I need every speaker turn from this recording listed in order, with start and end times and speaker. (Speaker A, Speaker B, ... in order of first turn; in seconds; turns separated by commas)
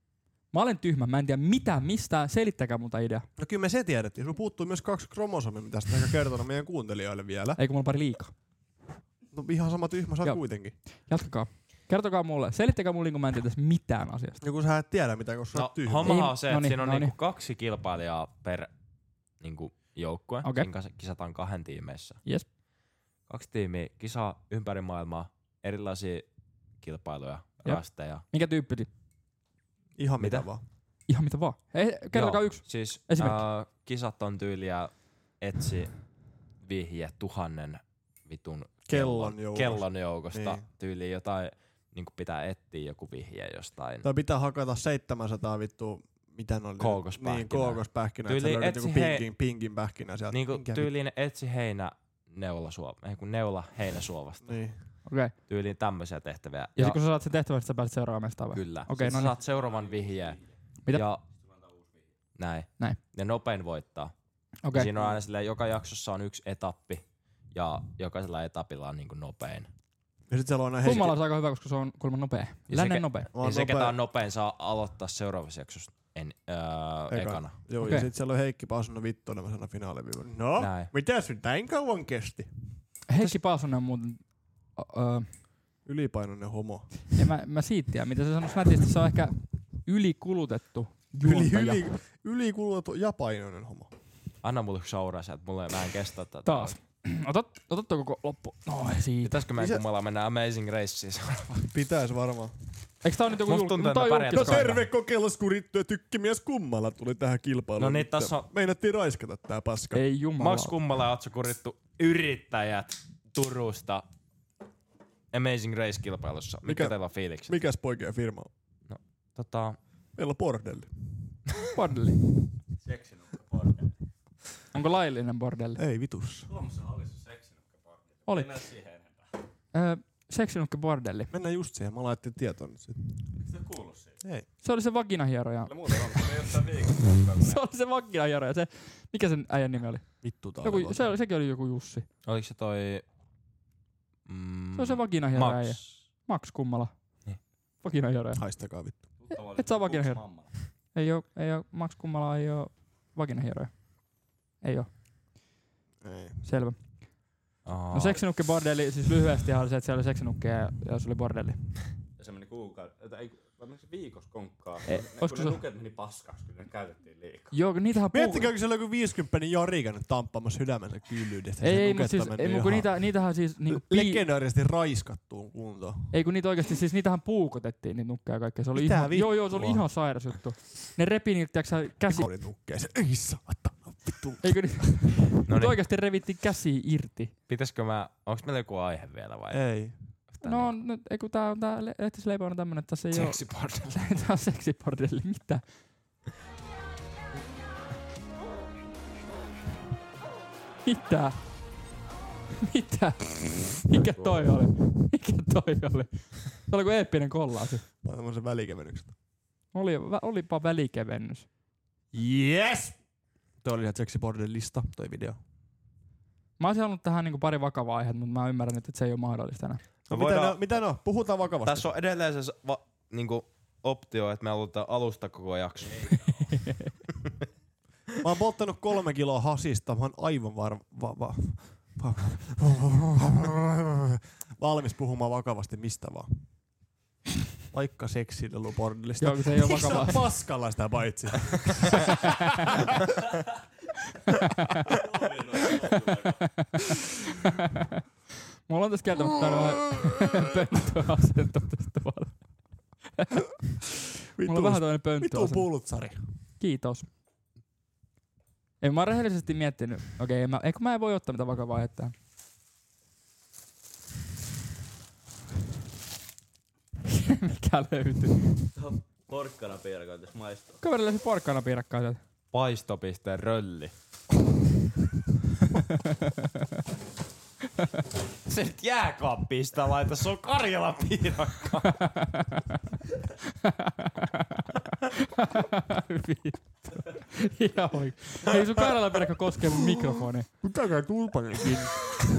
Speaker A: 0.5-3.3, Speaker B: 3.4-7.6, Speaker A: 7.6-8.3, Speaker B: 9.3-10.7, Speaker A: 10.2-14.4, Speaker B: 14.4-16.1, Speaker C: 15.5-18.7, Speaker A: 16.0-17.1, Speaker C: 19.4-22.2, Speaker A: 20.4-20.7, Speaker C: 23.3-26.3, Speaker C: 26.8-28.2, Speaker A: 27.6-28.9, Speaker B: 30.0-30.6, Speaker C: 30.2-30.4, Speaker A: 31.1-33.4, Speaker C: 32.1-35.9, Speaker C: 36.6-44.0, Speaker B: 38.9-40.6, Speaker B: 44.0-50.9, Speaker C: 46.8-49.3, Speaker C: 50.3-54.6, Speaker B: 54.4-54.8, Speaker A: 55.0-55.3, Speaker C: 55.5-57.0, Speaker A: 56.8-59.4, Speaker C: 58.5-61.2, Speaker D: 59.9-60.4, Speaker D: 61.4-62.1, Speaker C: 62.4-64.1, Speaker A: 64.6-64.9, Speaker C: 64.7-69.7, Speaker B: 70.3-71.1, Speaker A: 70.8-73.3, Speaker C: 72.7-77.5, Speaker B: 73.3-74.0, Speaker B: 77.1-83.4, Speaker A: 77.8-78.1, Speaker C: 80.6-80.9, Speaker A: 83.1-85.3, Speaker B: 85.8-86.9, Speaker A: 87.1-91.8, Speaker B: 91.2-93.9, Speaker C: 94.4-96.7, Speaker A: 96.4-99.5, Speaker C: 99.2-101.7, Speaker B: 99.6-99.8, Speaker B: 101.7-102.5, Speaker A: 103.0-104.8, Speaker C: 103.5-104.8, Speaker B: 104.3-110.0, Speaker C: 107.8-108.5, Speaker A: 109.9-110.8, Speaker C: 110.4-114.0, Speaker C: 115.3-117.6, Speaker B: 116.6-118.5, Speaker C: 118.9-119.8, Speaker B: 120.2-120.9, Speaker A: 121.7-122.2, Speaker D: 122.8-123.9, Speaker A: 124.7-125.8, Speaker B: 125.8-126.5, Speaker D: 126.5-129.3, Speaker A: 128.3-128.5, Speaker A: 129.7-131.3, Speaker B: 131.3-133.3, Speaker D: 133.4-134.2, Speaker A: 134.6-142.1, Speaker D: 135.7-137.6, Speaker B: 140.2-141.1, Speaker C: 142.2-143.0, Speaker C: 144.2-145.9, Speaker A: 144.8-146.9, Speaker A: 147.8-148.4, Speaker B: 148.3-149.0, Speaker D: 149.2-150.5, Speaker A: 149.3-150.2, Speaker A: 150.9-153.8, Speaker A: 154.6-154.9, Speaker B: 156.0-156.4, Speaker A: 156.4-156.8, Speaker C: 157.6-158.2, Speaker A: 157.9-161.7, Speaker D: 162.2-167.5, Speaker A: 164.8-165.6, Speaker A: 167.5-168.5, Speaker B: 168.1-173.0, Speaker A: 171.6-174.2, Speaker B: 173.7-176.1, Speaker A: 176.1-182.3, Speaker B: 178.7-179.8, Speaker B: 182.1-184.6, Speaker A: 184.4-187.3, Speaker C: 185.5-185.7, Speaker C: 187.5-189.6, Speaker B: 189.5-190.0, Speaker C: 190.3-190.8, Speaker A: 190.4-195.6, Speaker C: 193.1-193.9, Speaker A: 200.8-201.4, Speaker A: 202.6-207.8, Speaker C: 204.0-204.4, Speaker B: 208.0-209.1, Speaker A: 209.7-211.5, Speaker B: 212.1-213.0, Speaker B: 213.6-215.4, Speaker A: 216.6-219.8, Speaker C: 220.1-220.8, Speaker B: 220.1-221.9, Speaker C: 221.6-226.6, Speaker A: 226.5-226.9, Speaker B: 228.2-236.4, Speaker B: 237.7-242.9, Speaker A: 239.2-240.3, Speaker D: 244.9-246.5, Speaker A: 246.6-246.9, Speaker A: 248.7-252.6, Speaker B: 249.4-250.5, Speaker B: 254.3-256.2, Speaker A: 254.4-255.7, Speaker A: 256.6-257.1, Speaker A: 258.8-262.1, Speaker A: 267.1-268.5, Speaker D: 268.7-270.8, Speaker A: 270.8-272.2, Speaker C: 272.5-273.9, Speaker A: 276.1-276.5, Speaker C: 278.4-282.1, Speaker A: 281.9-282.6, Speaker A: 283.6-290.5, Speaker B: 290.6-292.1